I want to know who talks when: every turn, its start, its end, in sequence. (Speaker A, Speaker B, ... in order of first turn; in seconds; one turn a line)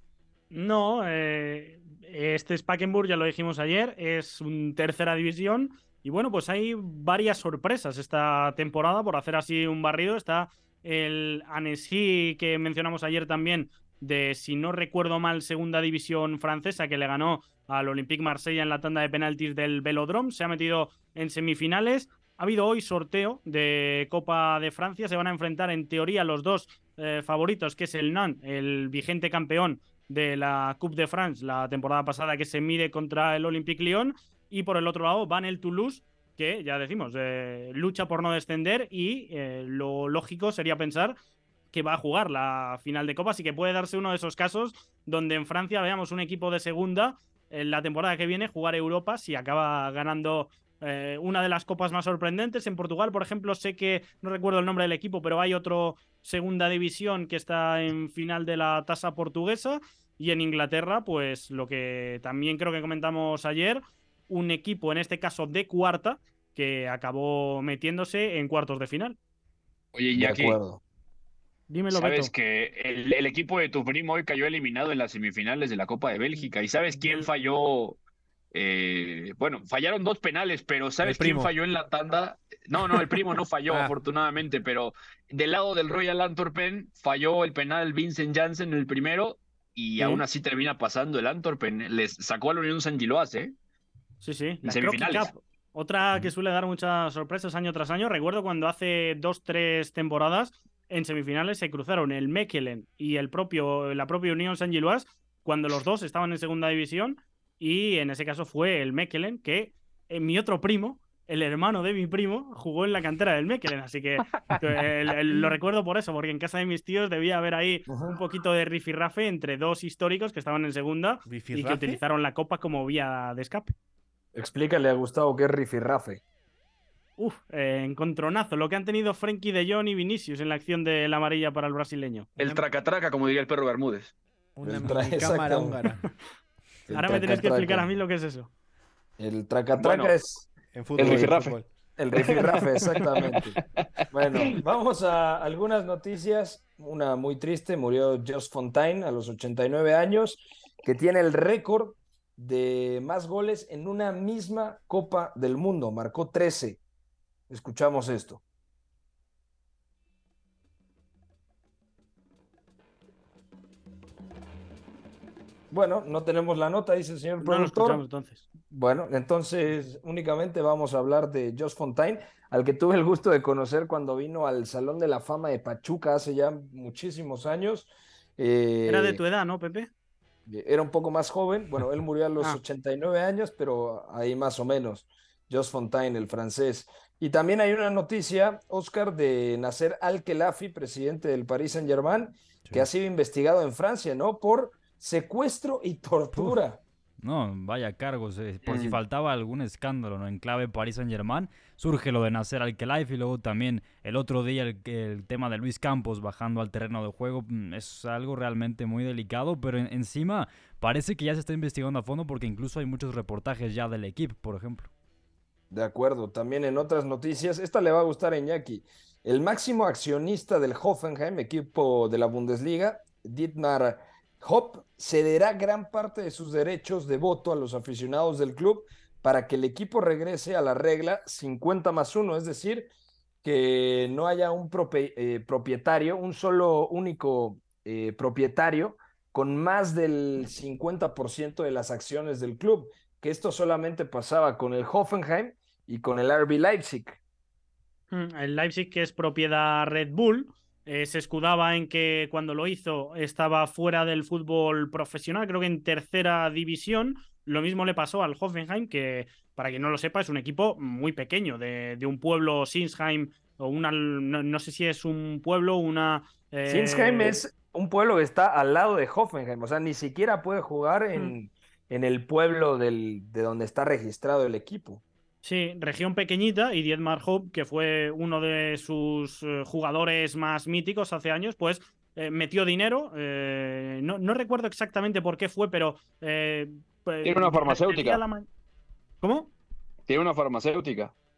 Speaker A: 0.5-41.2
Speaker A: 41.7-69.2
Speaker B: 70.0-70.6
Speaker C: 70.2-70.8
Speaker A: 71.7-72.3
Speaker B: 71.9-78.0
Speaker A: 77.0-77.3
Speaker B: 78.5-93.5
Speaker D: 81.0-81.5
Speaker D: 83.7-84.0
Speaker A: 90.0-90.2
Speaker A: 94.2-123.7
Speaker B: 94.7-95.3
Speaker C: 117.9-118.2
Speaker D: 121.3-122.0
Speaker C: 124.3-126.2
Speaker A: 127.2-132.3
Speaker D: 132.4-132.6
Speaker B: 132.4-134.1
Speaker D: 134.6-136.0
Speaker C: 134.6-135.8
Speaker C: 136.9-137.9
Speaker A: 136.9-138.5
Speaker C: 139.2-140.5
Speaker B: 139.7-140.1
Speaker D: 140.7-141.7
Speaker B: 141.0-141.5
Speaker C: 141.0-141.4
Speaker C: 142.0-143.6
Speaker B: 142.1-143.5
Speaker C: 144.1-156.8
Speaker C: 157.5-158.4
Speaker C: 165.7-168.0
Speaker A: 167.4-168.4
Speaker C: 168.7-179.2
Speaker A: 178.9-179.9
Speaker C: 180.5-196.8
Speaker E: 197.2-214.9
Speaker B: 198.7-199.0
Speaker C: 215.7-232.9
Speaker C: 233.4-247.2
Speaker A: 248.1-267.4
Speaker C: 266.7-275.0
Speaker A: 275.4-288.5
Speaker B: 287.2-288.2
Speaker A: 289.2-289.5
Speaker B: 290.1-291.1